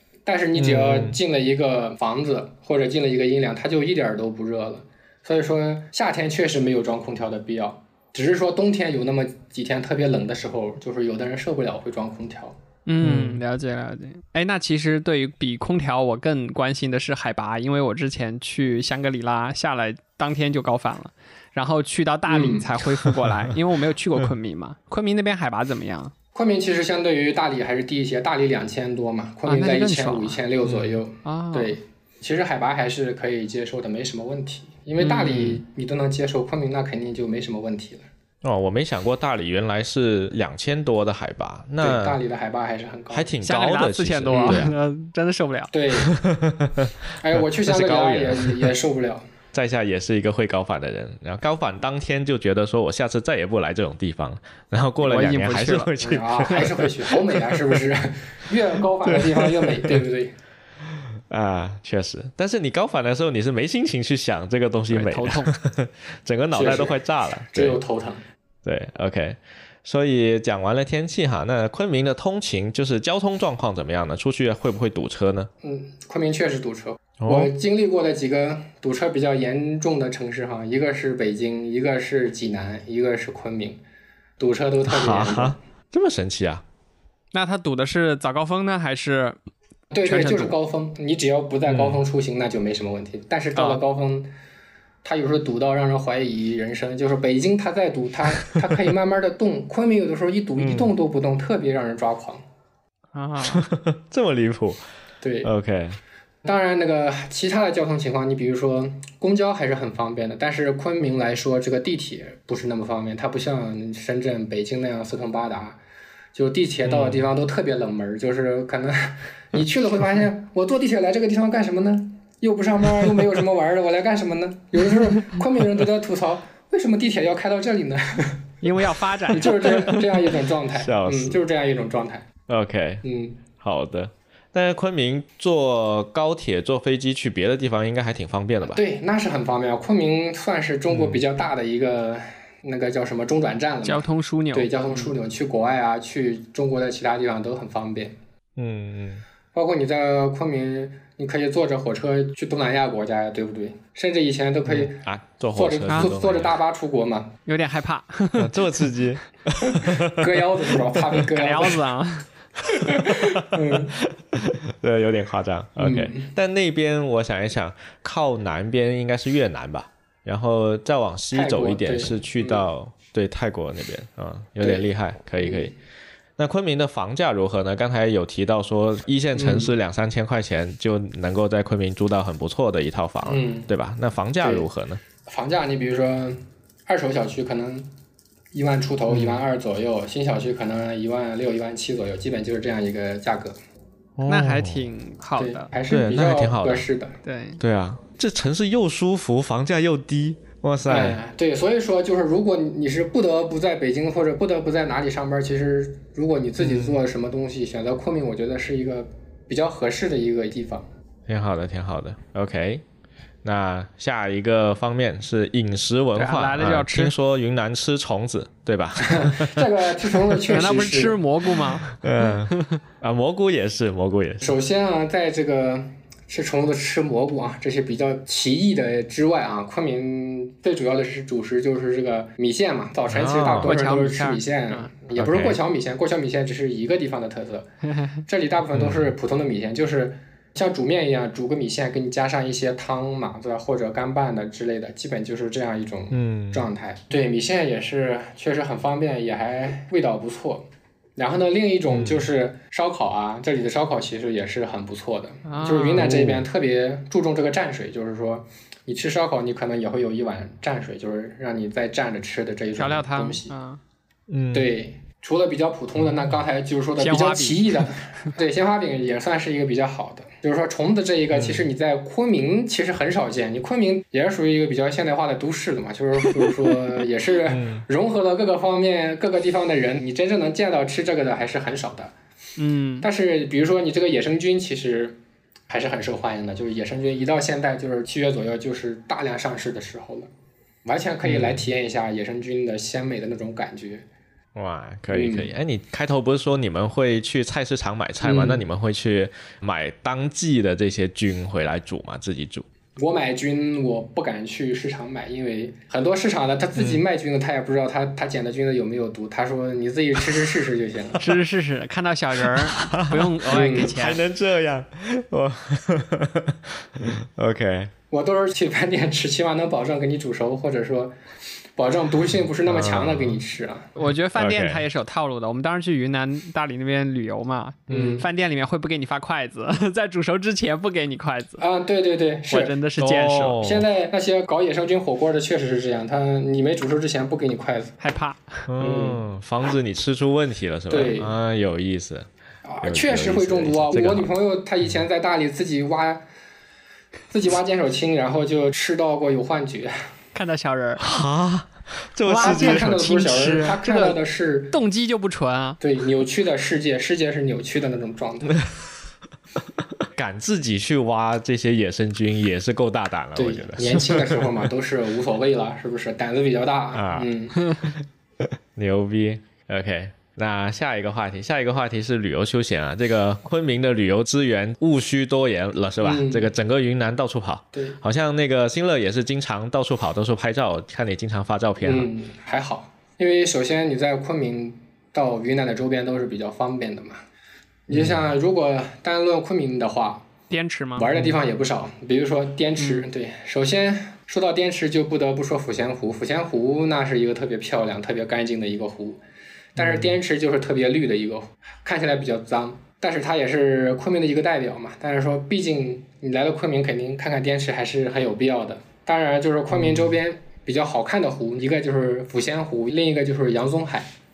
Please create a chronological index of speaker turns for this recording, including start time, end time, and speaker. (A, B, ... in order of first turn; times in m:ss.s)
0:00.2-0:12.6 A
0:00.6-0:01.2 B
0:12.9-0:26.1 C
0:13.0-0:13.4 B
0:22.3-0:22.7 A
0:26.3-0:38.0 A
0:29.4-0:30.4 C
0:30.6-0:31.0 B
0:31.2-0:31.8 C
0:35.0-0:35.4 C
0:35.0-0:35.6 B
0:38.4-0:42.2 B
0:41.8-0:43.3 A
0:43.1-0:44.7 B
0:43.4-0:45.7 C
0:44.3-0:44.7 A
0:45.7-0:46.1 A
0:46.0-0:48.7 B
0:47.2-0:49.2 A
0:49.5-0:57.6 B
0:55.0-0:56.0 C
0:56.0-1:00.4 A
0:59.0-1:00.0 B
1:01.3-1:07.8 B
1:04.9-1:05.5 C
1:06.5-1:08.2 A
1:08.6-1:15.5 B
1:15.6-1:23.8 A
1:17.2-1:17.5 B
1:24.4-1:25.6 A
1:24.9-1:26.6 B
1:27.3-1:29.4 C
1:29.9-1:34.3 A
1:30.0-1:30.6 C
1:31.6-1:32.0 B
1:35.0-1:42.4 A
1:40.6-1:40.9 B
1:43.1-1:43.6 C
1:43.4-1:44.8 B
1:45.2-1:45.5 A
1:45.4-1:46.0 B
1:46.4-1:55.8 A
1:56.3-2:08.5 A
1:56.8-1:57.3 B
2:08.6-2:10.1 C
2:09.3-2:12.3 A
2:10.8-2:11.4 B
2:12.5-2:13.0 B
2:13.0-2:13.4 A
2:13.5-2:18.8 B
2:18.6-2:28.2 A
2:20.9-2:21.2 B
2:23.8-2:25.1 C
2:28.6-2:29.2 B
2:29.5-2:37.3 A
2:34.6-2:36.6 B
2:37.4-2:39.0 C
2:38.4-2:40.3 B
2:39.6-2:41.9 A
2:41.3-2:42.3 C
2:42.7-2:44.0 A
2:42.8-2:55.7 B
2:45.8-2:46.3 A
2:51.3-2:52.6 A
2:54.6-2:54.8 A
2:55.4-2:55.7 A
2:56.4-3:05.0 B
2:59.3-2:59.7 A
3:03.2-3:03.7 A
3:04.4-3:04.7 A
3:05.2-3:07.9 A
3:08.5-3:13.6 A
3:09.1-3:09.4 B
3:14.2-3:14.9 B
3:14.3-3:15.7 C
3:15.4-3:17.2 A
3:15.9-3:16.8 B
3:17.2-3:17.6 C
3:17.6-3:21.2 B
3:20.9-3:30.8 A
3:26.6-3:27.0 B
3:31.3-3:32.8 B
3:33.4-3:40.1 B
3:36.1-3:37.1 C
3:39.0-3:41.2 A
3:40.5-3:42.8 C
3:42.0-3:44.5 B
3:44.4-3:57.7 A
3:53.1-3:53.7 B
3:53.6-3:54.9 C
3:55.1-3:55.6 B
3:58.3-4:10.6 A
3:58.7-3:59.1 B
4:06.1-4:06.6 B
4:11.2-4:23.5 A
4:11.9-4:12.2 B
4:15.4-4:16.1 C
4:16.0-4:16.5 B
4:22.8-4:23.8 C
4:24.3-4:24.7 B
4:24.5-4:42.1 A
4:27.0-4:27.9 C
4:31.3-4:31.7 B
4:37.5-4:37.8 B
4:42.6-4:43.1 C
4:43.0-4:45.2 A
4:45.7-4:50.3 A
4:50.8-4:54.0 A
4:51.2-4:51.6 B
4:54.5-5:02.6 B
4:55.1-4:55.5 A
4:58.2-4:58.6 A
5:03.0-5:11.4 A
5:06.8-5:07.0 B
5:11.2-5:14.2 C
5:12.6-5:17.9 B
5:13.5-5:13.9 A
5:18.1-5:21.1 A
5:21.7-5:23.9 A
5:22.6-5:23.4 B
5:24.0-5:31.6 C
5:24.3-5:24.8 B
5:27.9-5:28.3 A
5:31.6-5:32.7 A
5:32.5-5:33.6 C
5:33.0-5:33.8 B
5:33.6-5:37.9 A
5:38.0-5:38.6 C
5:38.7-5:42.3 B
5:38.8-5:39.2 A
5:40.9-5:41.3 A
5:42.6-5:46.2 A
5:42.8-5:44.3 B
5:47.3-5:49.9 A
5:50.3-5:51.0 C
5:51.0-5:53.0 B
5:52.3-5:54.2 C
5:52.3-5:54.8 A
5:54.7-5:55.8 C
5:55.8-5:58.6 A
6:00.1-6:04.6 B
6:03.3-6:07.6 A
6:06.9-6:07.3 B
6:08.7-6:22.1 B
6:16.0-6:16.5 A
6:17.7-6:18.0 A
6:21.8-6:27.2 A
6:27.9-6:30.2 A
6:27.9-6:28.3 B
6:30.5-6:31.1 C
6:31.0-6:39.2 A
6:32.8-6:33.1 C
6:39.8-6:54.1 A
6:39.8-6:40.2 B
6:49.7-6:50.1 B